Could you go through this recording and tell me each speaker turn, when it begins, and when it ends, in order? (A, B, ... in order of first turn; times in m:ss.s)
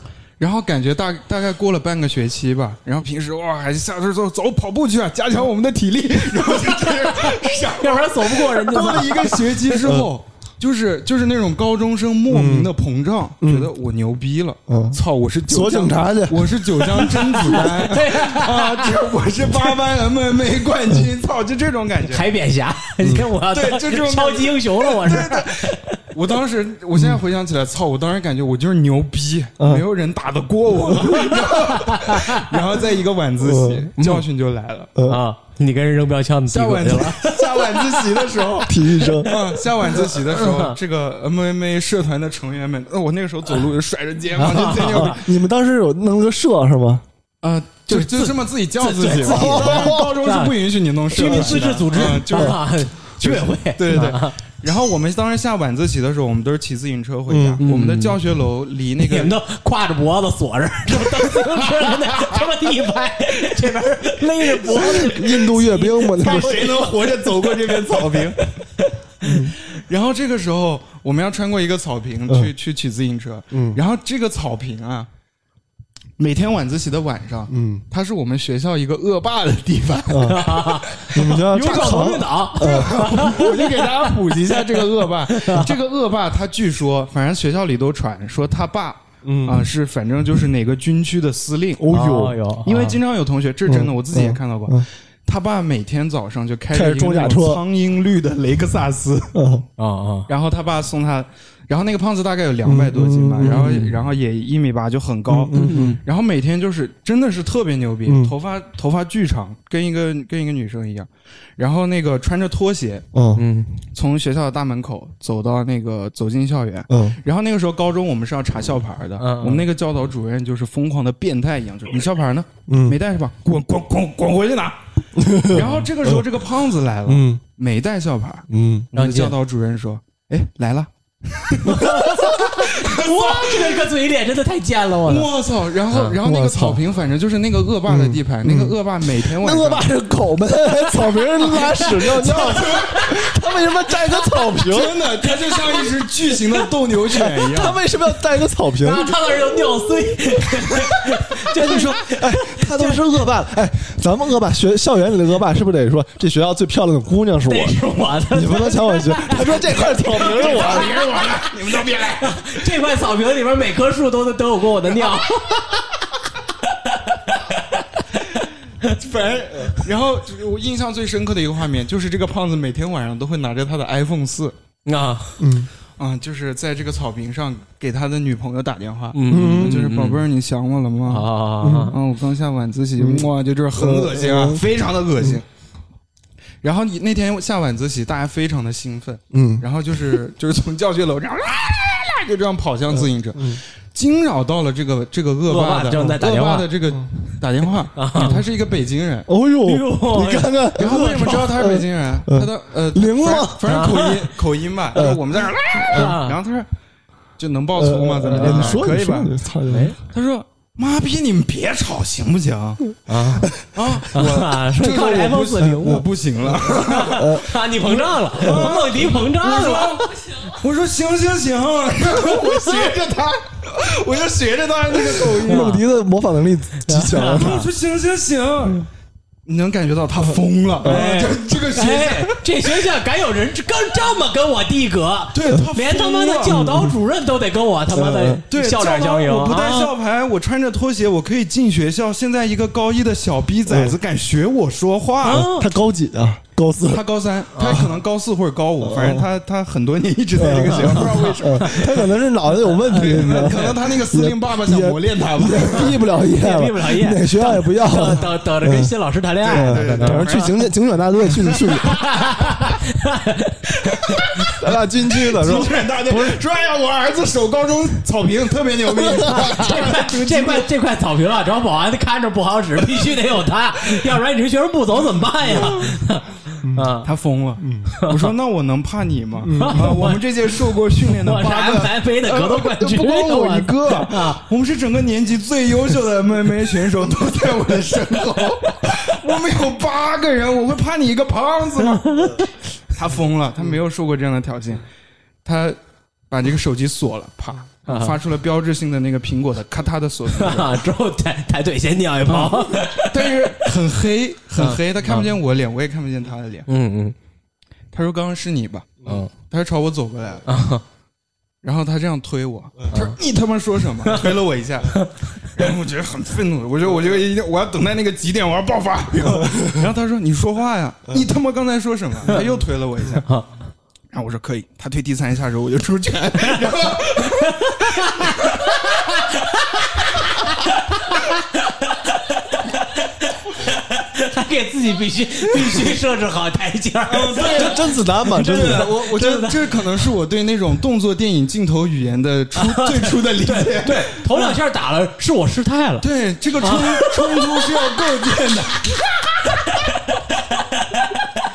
0:00.4-0:22.3 A
0:06.8-0:09.4 B
0:09.8-0:10.1 C
0:12.3-0:12.7 C
0:13.4-0:13.7 C
0:14.7-0:17.7 C
0:17.5-0:18.9 B
0:22.1-0:26.0 B
0:23.5-0:34.9 A
0:29.6-0:29.8 C
0:30.9-0:31.2 C
0:31.7-0:32.5 B
0:33.4-0:33.9 C
0:34.0-0:34.2 B
0:35.0-0:35.2 C
0:35.1-0:37.8 B
0:36.5-0:45.3 A
0:38.6-0:39.4 C
0:40.0-0:40.8 B
0:44.4-0:45.2 B
0:44.7-0:47.0 C
0:47.4-0:52.6 A
0:47.9-0:50.6 B
0:49.0-0:50.2 C
0:51.1-0:54.4 B
0:51.2-0:51.6 C
0:52.3-0:52.6 C
0:53.2-0:59.4 A
0:57.3-0:57.6 C
0:57.6-0:58.2 B
0:59.0-1:07.8 B
1:01.0-1:02.4 A
1:04.7-1:06.8 C
1:06.2-1:08.5 A
1:09.2-1:09.6 C
1:09.3-1:15.1 A
1:13.5-1:13.8 C
1:16.2-1:20.4 A
1:17.5-1:17.8 C
1:20.1-1:20.5 C
1:20.3-1:24.1 B
1:20.9-1:31.8 A
1:21.1-1:23.4 C
1:25.3-1:25.7 B
1:29.2-1:29.7 C
1:31.8-1:32.4 C
1:31.9-1:33.0 B
1:32.7-1:39.4 A
1:33.7-1:34.8 C
1:36.7-1:37.6 C
1:39.3-1:39.6 C
1:39.8-1:40.3 B
1:40.3-1:53.1 A
1:42.6-1:44.0 C
1:45.3-1:46.0 C
1:45.6-1:46.0 B
1:48.1-1:48.3 C
1:53.1-1:53.4 C
1:53.4-1:53.8 B
1:53.9-2:04.8 A
1:56.9-1:57.2 C
1:59.2-1:59.7 B
2:02.7-2:03.0 C
2:05.2-2:06.3 C
2:05.4-2:13.8 A
2:05.6-2:05.8 B
2:07.1-2:07.4 C
2:08.5-2:08.9 C
2:09.0-2:09.4 B
2:11.7-2:15.3 B
2:15.1-2:19.9 A
2:16.2-2:16.8 C
2:17.9-2:25.0 C
2:21.4-2:23.1 B
2:22.0-2:23.1 A
2:24.7-2:27.8 A
2:25.5-2:25.8 B
2:27.1-2:29.3 C
2:28.8-2:33.0 B
2:31.5-2:37.8 C
2:37.5-2:45.8 B
2:38.3-2:41.0 C
2:40.2-2:42.6 A
2:46.8-2:48.0 B
2:48.8-2:54.6 A
2:54.9-2:55.4 B
2:55.4-2:55.7 C
2:56.0-3:01.3 A
2:59.1-3:00.2 B
2:59.3-2:59.8 C
3:01.1-3:02.0 B
3:01.6-3:01.9 C
3:01.9-3:05.5 A
3:03.0-3:04.6 C
3:06.6-3:19.3 A
3:09.3-3:09.6 C
3:12.9-3:13.6 C
3:15.5-3:16.7 B
3:18.0-3:18.4 B
3:19.3-3:23.7 C
3:19.6-3:21.4 B
3:20.8-3:26.7 A
3:23.7-3:24.2 B
3:24.9-3:26.2 C
3:25.9-3:26.4 B
3:27.4-3:29.3 A
3:27.8-3:30.0 C
3:28.3-3:28.8 B
3:29.7-3:30.0 B
3:30.1-3:32.8 A
3:33.1-3:33.5 B
3:33.7-3:45.8 A
3:34.1-3:36.0 B
3:35.6-3:36.0 C
3:36.7-3:37.5 C
3:36.8-3:40.1 B
3:38.4-3:38.7 C
3:45.4-3:47.7 C
3:45.5-3:45.8 B
3:46.8-3:47.6 B
3:47.3-3:48.9 A
3:49.5-3:52.4 A
3:50.2-3:51.1 C
3:50.8-3:59.9 B
3:55.3-3:56.6 A
3:56.5-3:57.0 C
3:57.9-3:58.4 C
3:58.5-4:05.5 A
4:03.7-4:04.0 C
4:05.2-4:05.7 B
4:05.3-4:07.0 C
4:06.9-4:12.1 A
4:07.6-4:07.8 B
4:07.6-4:07.9 C
4:08.8-4:09.3 C
4:10.4-4:18.9 C
4:12.6-4:13.5 B
4:12.9-4:16.0 A
4:16.2-4:20.3 B
4:19.4-4:20.7 A
4:19.5-4:22.0 C
4:21.8-4:24.5 B
4:24.6-4:25.7 C
4:25.2-4:30.7 A
4:26.1-4:26.4 B
4:29.1-4:29.4 C
4:29.2-4:37.1 B
4:35.5-4:35.9 A
4:36.6-4:36.9 C
4:37.0-4:52.2 A
4:37.6-4:37.9 C
4:38.0-4:38.3 B
4:39.4-4:39.9 C
4:39.6-4:40.2 B
4:41.2-4:44.4 B
4:51.8-4:52.5 B
4:52.9-4:54.8 A
4:55.4-4:55.8 A
4:56.3-5:00.8 A
4:57.9-4:58.2 B
5:00.3-5:03.5 B
5:02.3-5:06.7 A
5:04.6-5:05.3 B
5:06.7-5:07.2 B
5:07.9-5:10.4 A
5:09.1-5:09.3 B
5:10.5-5:10.8 B
5:11.6-5:23.3 A
5:19.4-5:19.8 C
5:24.1-5:28.6 A
5:27.3-5:32.8 B
5:33.5-5:39.8 B
5:37.1-5:44.6 A
5:37.4-5:39.0 C
5:42.6-5:46.1 B
5:46.0-5:49.0 A
5:46.6-5:47.9 B
5:49.5-5:51.2 B